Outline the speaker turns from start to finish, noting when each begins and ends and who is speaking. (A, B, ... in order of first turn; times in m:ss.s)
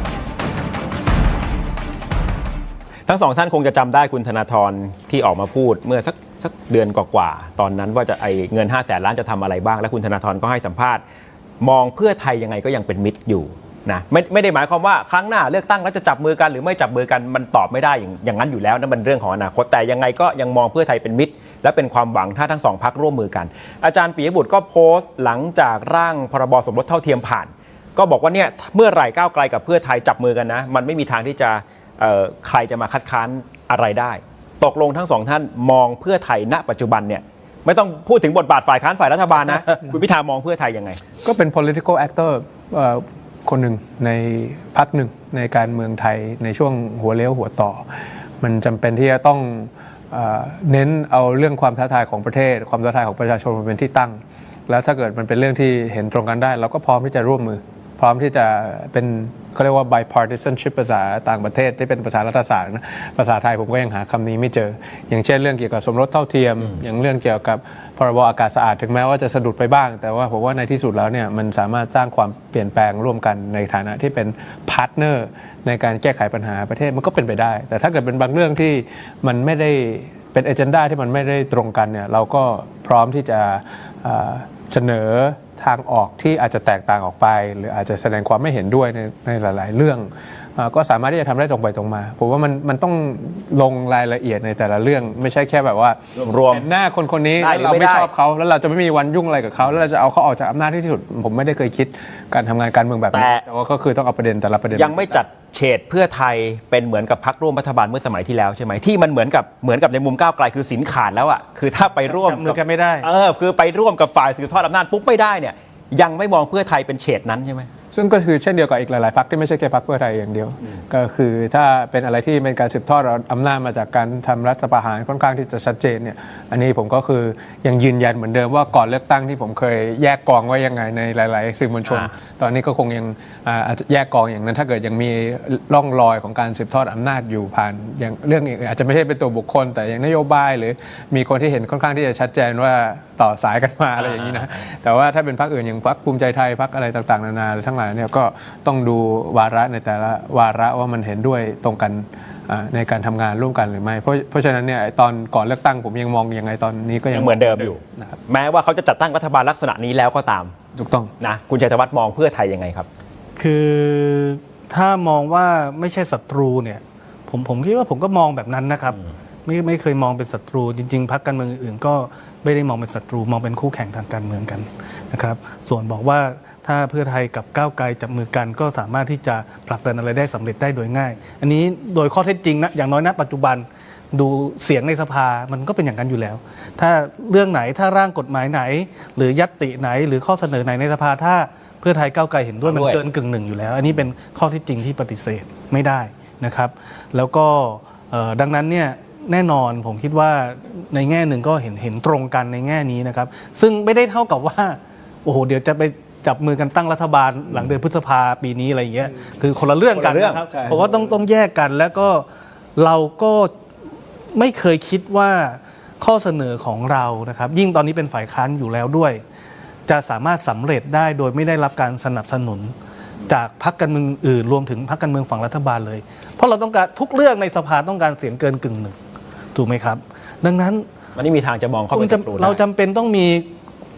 0:03.1-0:11.0 A
0:11.6-0:41.0 A
0:41.2-0:47.8 B
0:48.4-1:45.2 B
1:36.2-1:36.7 A
1:37.4-1:38.1 A
1:43.1-1:43.4 A
1:44.7-1:57.7 A
1:52.1-1:53.1 C
1:57.9-2:38.2 B
2:11.9-2:12.1 A
2:24.0-2:24.5 A
2:37.1-2:40.5 A
2:40.7-2:41.1 B
2:41.2-2:42.9 A
2:43.4-3:32.2 C
3:12.6-3:13.0 A
3:30.0-3:30.5 A
3:30.5-3:31.1 B
3:32.8-3:33.5 C
3:34.3-3:39.2 C
3:39.9-3:42.7 C
3:43.3-3:49.0 C
3:49.6-3:50.8 C
3:51.2-3:52.6 A
3:51.9-3:53.5 C